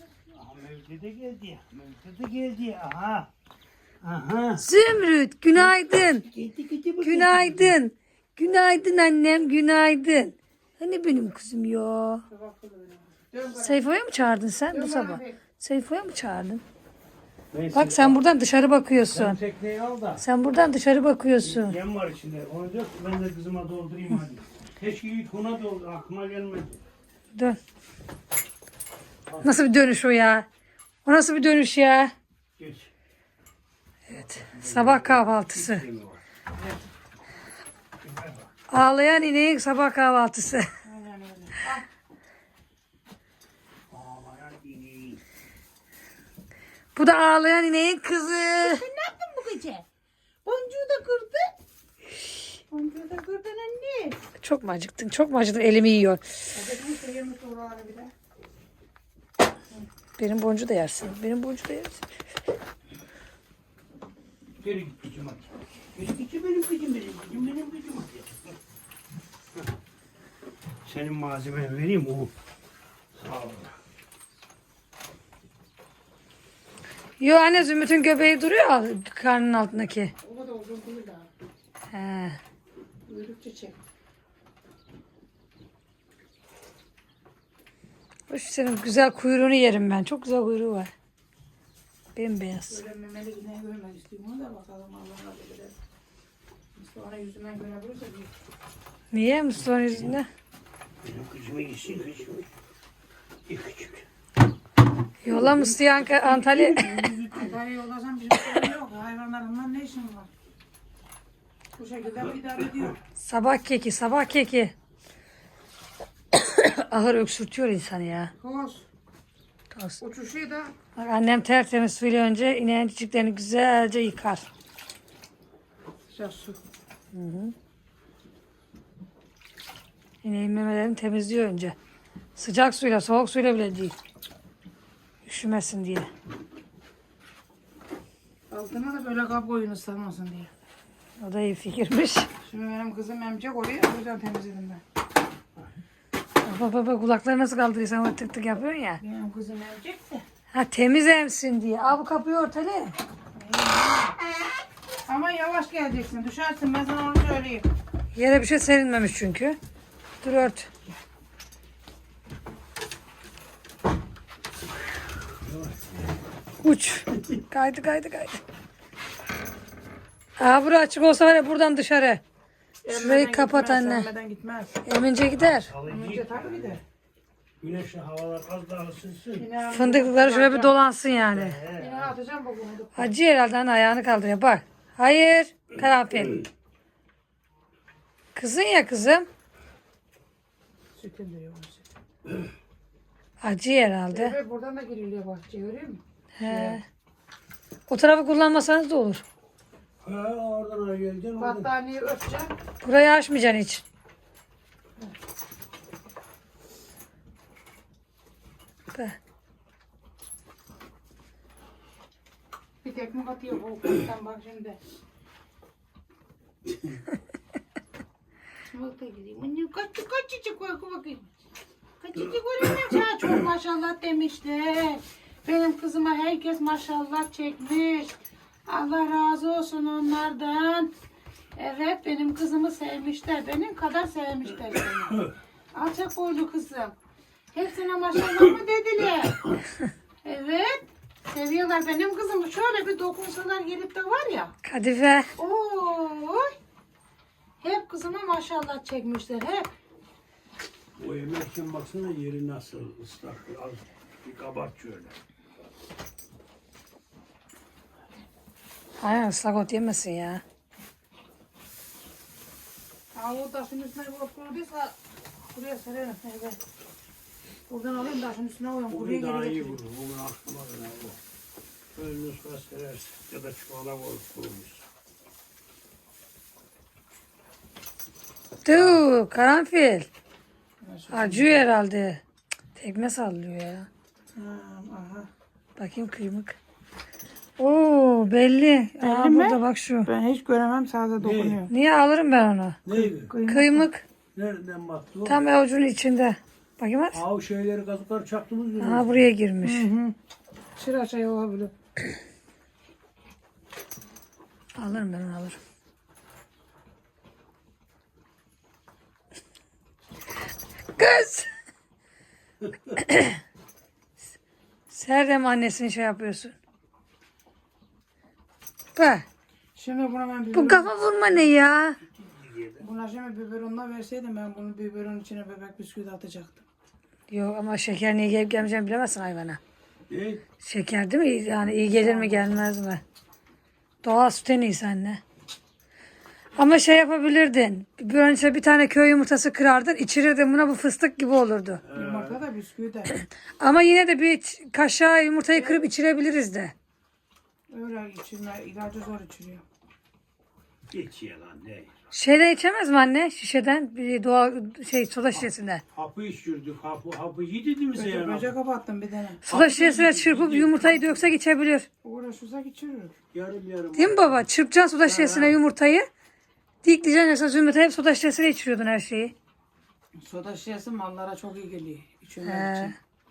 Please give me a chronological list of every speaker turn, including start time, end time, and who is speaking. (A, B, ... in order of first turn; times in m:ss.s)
0:00.3-0:03.3 A
0:04.0-0:04.6 A
0:04.6-0:06.2 B
0:05.5-0:07.8 A
0:07.0-0:12.2 B
0:12.3-0:13.8 C
0:13.6-0:16.6 B
0:14.7-0:15.4 C
0:17.5-0:18.2 A
0:17.7-0:19.4 B
0:19.1-0:20.2 A
0:20.2-0:21.7 B
0:21.4-0:26.8 A
0:29.3-0:29.6 A
0:29.4-0:30.4 B
0:31.0-0:32.1 B
0:32.6-0:32.9 A
0:34.1-0:35.8 B
0:34.1-0:36.2 A
0:38.0-0:38.5 A
0:38.7-0:40.7 B
0:40.8-0:41.8 C
0:43.9-0:45.2 A
0:46.9-0:48.8 B
0:48.6-0:49.8 C
0:50.4-0:51.6 C
0:52.7-0:54.2 C
0:54.4-0:56.2 B
0:56.5-0:58.1 C
1:00.2-1:02.0 B
1:04.6-1:08.6 A
1:10.8-1:12.3 A
1:13.1-1:13.8 A
1:17.2-1:20.1 B
1:20.2-1:21.3 C
1:21.9-1:22.4 B
1:23.1-1:23.8 C
1:28.3-1:30.9 B
1:32.2-1:32.8 B
1:32.7-1:35.8 C
1:36.8-1:38.3 C
1:39.1-1:40.3 B
1:41.0-1:42.5 A
1:43.4-1:44.0 A
1:45.2-1:47.1 B
1:45.4-1:47.6 A
1:47.3-1:50.3 C
1:51.8-1:53.0 C
1:53.2-1:54.7 B
1:56.3-1:58.3 B
1:58.4-1:58.8 C
1:59.7-2:00.0 B
2:00.0-2:00.7 C
2:00.9-2:04.4 B
2:06.1-2:06.6 C
2:07.1-2:07.5 B
2:10.2-2:11.7 B
2:12.4-2:13.9 B
2:15.2-2:16.1 B
2:18.5-2:20.5 C
2:21.2-2:22.3 B
2:22.4-2:24.8 C
2:26.4-2:29.0 B
2:29.0-2:30.2 C
2:30.5-2:33.0 B
2:33.3-2:34.2 C
2:35.0-2:37.6 C
2:38.1-2:39.6 B
2:40.2-2:40.7 B
2:45.4-2:46.1 A
2:46.6-2:48.4 B
2:50.4-2:52.2 B
2:52.8-2:54.8 C
2:52.9-2:54.1 B
2:54.8-2:55.7 B
2:55.3-2:56.8 A
2:55.8-2:56.8 C
2:57.6-2:59.4 A
2:59.4-3:00.7 C
2:59.7-3:01.6 B
3:01.3-3:02.1 A
3:01.7-3:03.1 C
3:03.0-3:06.4 B
3:08.3-3:09.3 B
3:11.0-3:11.9 C
3:13.4-3:14.3 B
3:14.1-3:16.8 C
3:16.4-3:16.8 B
3:17.9-3:19.2 B
3:20.0-3:21.7 A
3:21.4-3:22.5 C
3:22.8-3:23.8 B
3:32.8-3:34.8 C
3:38.6-3:41.3 C
3:42.0-3:48.1 C
3:48.6-3:50.9 C
3:51.6-3:56.9 C
3:57.5-3:59.5 C
4:00.2-4:04.5 C
4:04.6-4:05.3 B
4:05.4-4:06.5 C
4:07.6-4:09.7 C
4:11.0-4:15.2 A
4:19.0-4:20.4 B
4:23.1-4:25.0 C
4:25.5-4:26.6 C
4:27.7-4:29.8 C
4:28.9-4:31.2 A
4:31.9-4:34.8 A
4:38.6-4:40.1 B
4:38.7-4:39.0 A
4:40.8-4:41.6 C
4:41.1-4:42.2 B
4:42.8-4:43.9 B
4:44.4-4:45.3 C
4:45.8-4:46.5 B
4:47.6-4:50.1 B
4:49.0-4:51.7 C
4:51.2-4:51.6 A
4:51.7-4:52.8 B
4:52.8-4:53.3 A
4:53.3-4:53.9 C
4:53.5-4:54.0 B
4:54.3-4:55.4 A
4:55.2-4:57.2 B
4:57.1-4:59.2 A
4:58.8-4:59.9 B
4:59.6-5:00.1 C
5:00.8-5:01.7 C
5:04.8-5:05.6 B
5:11.0-5:11.5 B
5:12.6-5:13.0 A
5:13.0-5:13.4 B
5:14.9-5:16.5 B
5:19.0-5:19.2 B
5:19.8-5:21.5 C
5:20.5-5:22.0 B
5:22.0-5:22.8 A
5:22.8-5:26.6 C
5:27.3-5:29.6 B
5:30.1-5:30.4 A
5:30.6-5:33.0 B
5:31.8-5:32.6 C
5:34.0-5:35.2 B
5:36.6-5:41.8 B
5:41.8-5:42.4 A
5:41.9-5:43.1 C
5:43.1-5:46.7 B
5:45.5-5:45.8 C
5:47.7-5:49.6 C
5:50.9-5:51.9 A
5:52.1-5:55.8 B
5:55.3-5:58.5 A
5:57.9-5:59.5 C
5:59.4-6:01.9 B
5:59.5-6:01.2 A
6:02.0-6:03.2 C
6:03.3-6:04.5 A
6:04.0-6:06.1 B
6:05.0-6:05.6 A
6:06.8-6:09.3 B
6:10.2-6:12.9 C
6:12.4-6:12.9 B